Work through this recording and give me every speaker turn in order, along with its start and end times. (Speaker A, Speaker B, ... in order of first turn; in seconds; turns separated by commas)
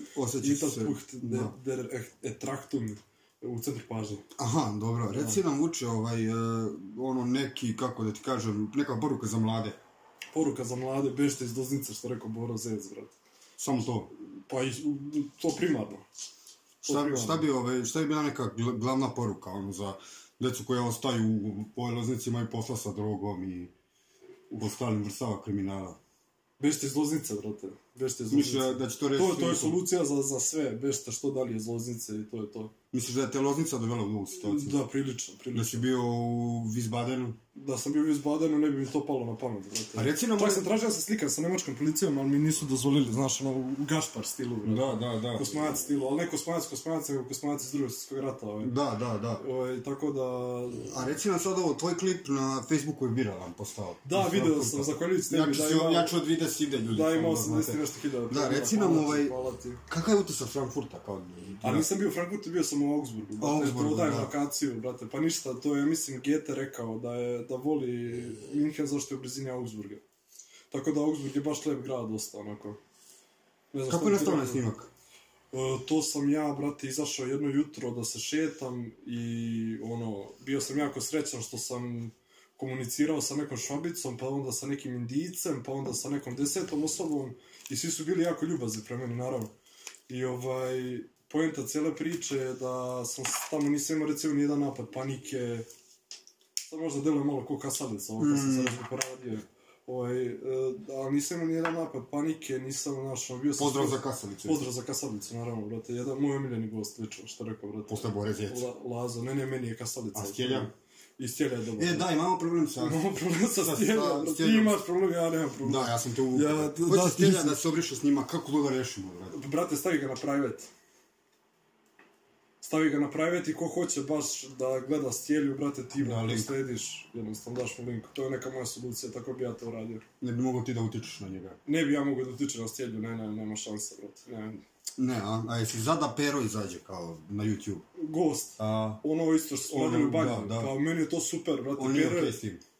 Speaker A: 0.1-1.6, Speaker B: 0.4-4.2, Speaker A: 4.4-9.8, Speaker B: 5.1-5.4, Speaker B: 10.3-13.2, Speaker A: 13.6-14.1, Speaker B: 14.5-16.0, Speaker B: 16.8-17.5, Speaker A: 16.9-23.7, Speaker A: 24.5-26.0, Speaker B: 26.6-32.7, Speaker A: 28.3-29.8, Speaker A: 32.9-34.8, Speaker B: 34.4-35.9, Speaker A: 35.5-37.4, Speaker B: 37.5-48.7, Speaker A: 40.0-40.7, Speaker A: 44.6-45.5, Speaker A: 48.6-49.4, Speaker B: 49.4-50.9, Speaker A: 50.8-59.4, Speaker B: 54.0-56.1, Speaker B: 56.9-59.8, Speaker A: 59.9-61.9, Speaker B: 61.6-70.0, Speaker A: 63.4-64.3, Speaker B: 70.7-72.8, Speaker B: 73.7-74.6, Speaker A: 73.9-74.9, Speaker B: 75.5-89.5, Speaker B: 90.1-95.7, Speaker B: 96.7-112.1, Speaker A: 98.2-98.8, Speaker A: 103.6-104.7, Speaker A: 107.9-108.7, Speaker A: 110.2-110.7, Speaker A: 111.8-113.0, Speaker B: 112.8-117.6, Speaker A: 113.6-114.8, Speaker A: 115.6-119.4, Speaker B: 119.3-120.7, Speaker B: 122.6-130.0, Speaker A: 126.0-126.6, Speaker A: 130.2-131.6, Speaker B: 131.7-134.6, Speaker A: 135.0-137.8, Speaker B: 138.0-142.4, Speaker A: 138.6-139.0, Speaker A: 139.7-140.7, Speaker A: 141.8-142.6